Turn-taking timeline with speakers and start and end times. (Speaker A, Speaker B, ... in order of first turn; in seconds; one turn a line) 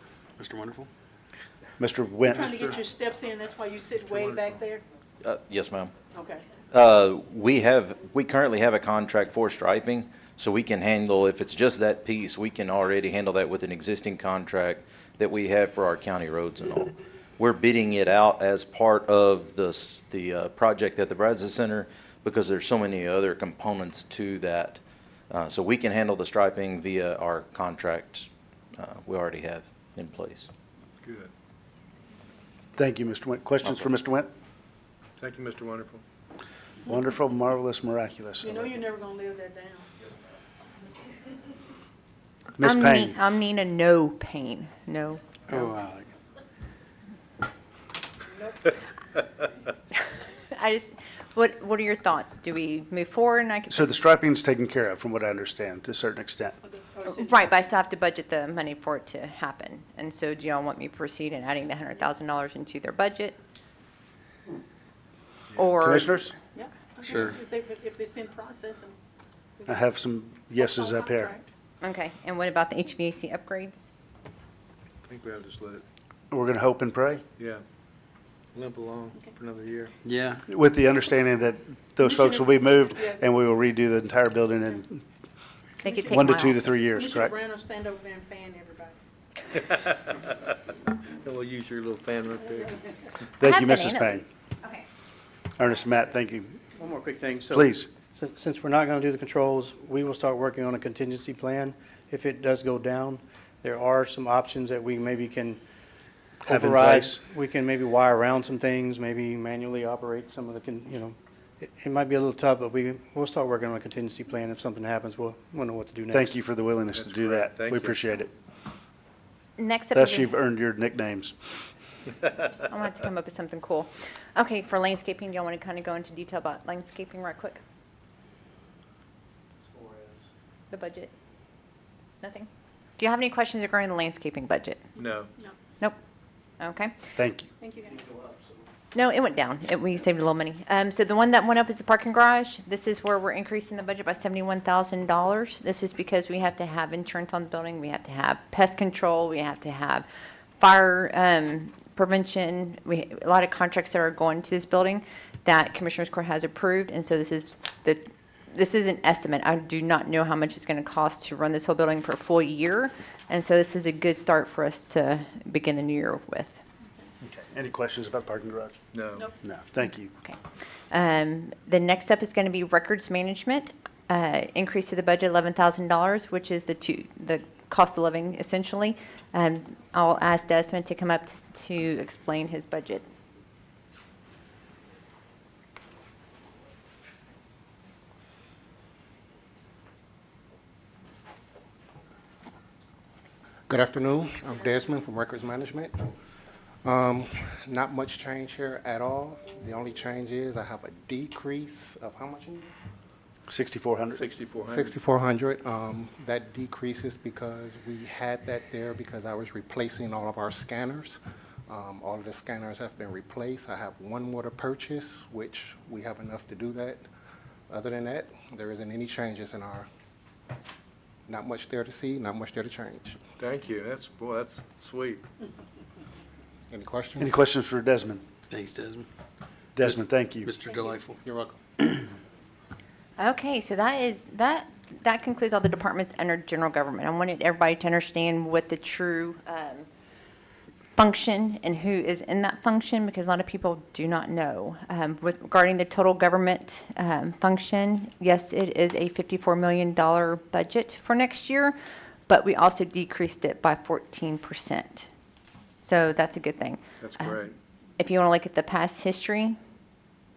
Speaker A: 0.4-0.9
Speaker B: 1.8-2.7
Speaker C: 2.3-4.8
Speaker D: 5.2-5.9
Speaker C: 6.1-6.5
Speaker D: 6.7-24.8
Speaker D: 25.3-30.5
Speaker E: 31.0-31.3
Speaker B: 32.8-34.3
Speaker E: 35.2-36.0
Speaker B: 36.9-38.7
Speaker C: 38.4-39.9
Speaker B: 42.6-43.2
Speaker F: 42.6-45.2
Speaker A: 45.5-46.1
Speaker F: 50.6-54.0
Speaker B: 53.7-56.6
Speaker C: 56.9-57.3
Speaker F: 57.0-63.4
Speaker F: 65.6-66.1
Speaker B: 65.8-66.3
Speaker C: 66.6-69.0
Speaker B: 69.7-71.4
Speaker C: 70.6-71.4
Speaker F: 71.8-73.9
Speaker E: 75.0-75.8
Speaker B: 76.3-77.2
Speaker E: 78.5-79.9
Speaker A: 80.0-80.4
Speaker B: 80.5-85.0
Speaker C: 82.0-83.2
Speaker F: 85.8-86.8
Speaker C: 85.8-86.2
Speaker B: 86.1-87.4
Speaker C: 86.9-89.0
Speaker E: 91.2-92.7
Speaker B: 93.4-94.3
Speaker F: 93.4-94.9
Speaker B: 95.6-96.6
Speaker G: 96.8-105.6
Speaker B: 97.5-97.9
Speaker G: 106.4-116.3
Speaker B: 106.5-107.2
Speaker B: 116.1-118.3
Speaker E: 117.0-118.0
Speaker F: 119.6-120.3
Speaker B: 119.9-121.3
Speaker F: 122.6-127.6
Speaker F: 130.7-131.1
Speaker F: 132.2-134.8
Speaker E: 135.0-135.3
Speaker F: 136.6-136.9
Speaker B: 137.2-137.5
Speaker C: 137.6-138.0
Speaker F: 138.9-150.1
Speaker F: 150.6-166.6
Speaker B: 167.2-168.8
Speaker E: 168.9-169.3
Speaker B: 169.4-170.1
Speaker F: 170.9-183.1
Speaker H: 193.7-196.0
Speaker H: 196.8-202.7
Speaker B: 203.5-204.2
Speaker E: 204.2-205.0
Speaker H: 204.6-217.0
Speaker H: 217.7-219.9
Speaker H: 221.3-223.2
Speaker E: 223.4-225.2
Speaker H: 226.7-227.4
Speaker B: 227.2-228.2
Speaker A: 228.5-229.1
Speaker B: 229.8-230.5
Speaker A: 230.5-231.2
Speaker H: 231.2-231.6
Speaker F: 233.2-239.9
Speaker F: 241.0-251.8
Speaker F: 252.3-255.1
Speaker F: 255.8-257.3
Speaker E: 257.0-257.6
Speaker F: 258.0-259.6